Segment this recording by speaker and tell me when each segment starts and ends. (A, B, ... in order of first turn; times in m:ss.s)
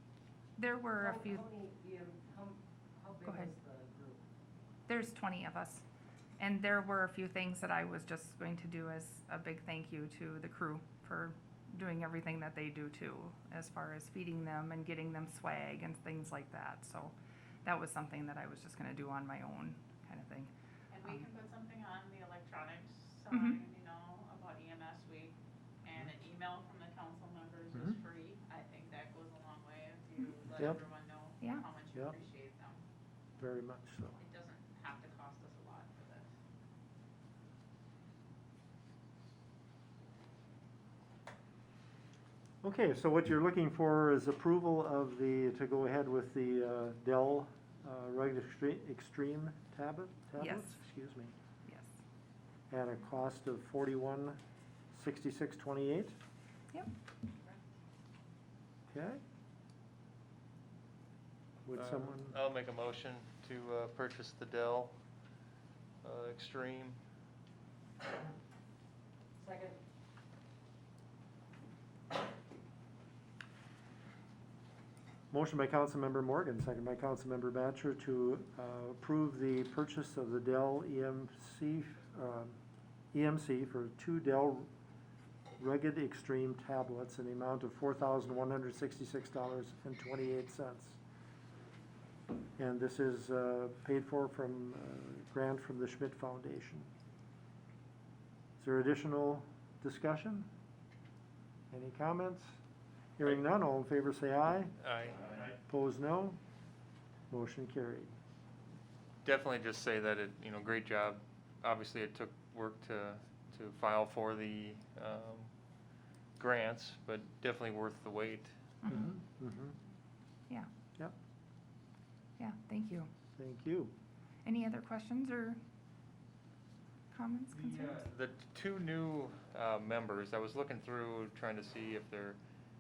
0:00.6-0:01.5 A
0:01.0-0:04.2 B
0:03.2-0:03.5 A
0:04.9-0:05.8 A
0:06.4-0:20.5 A
0:20.9-0:32.8 C
0:23.3-0:23.6 A
0:33.4-0:34.2 D
0:34.2-0:36.3 C
0:42.6-0:51.3 D
0:50.4-0:50.8 A
0:51.6-0:52.0 A
0:52.7-0:54.4 D
0:54.9-0:56.2 D
0:58.9-0:59.2 D
1:01.6-1:02.4 D
1:01.8-1:05.0 E
1:06.0-1:07.0 E
1:09.4-1:09.8 B
1:15.3-1:22.6 D
1:23.1-1:24.7 D
1:25.6-1:31.0 D
1:32.6-1:36.9 D
1:38.6-1:40.5 D
1:41.7-1:42.5 D
1:43.2-1:44.8 D
1:44.8-1:45.6 E
1:45.7-1:46.4 D
1:47.3-1:48.1 D
1:49.2-1:55.5 E
1:56.4-1:58.6 E
1:58.8-1:59.1 A
1:58.9-1:59.8 D
2:02.4-2:03.1 A
2:03.3-2:03.9 D
2:04.4-2:05.6 A
2:07.1-2:08.0 A
2:07.6-2:12.4 E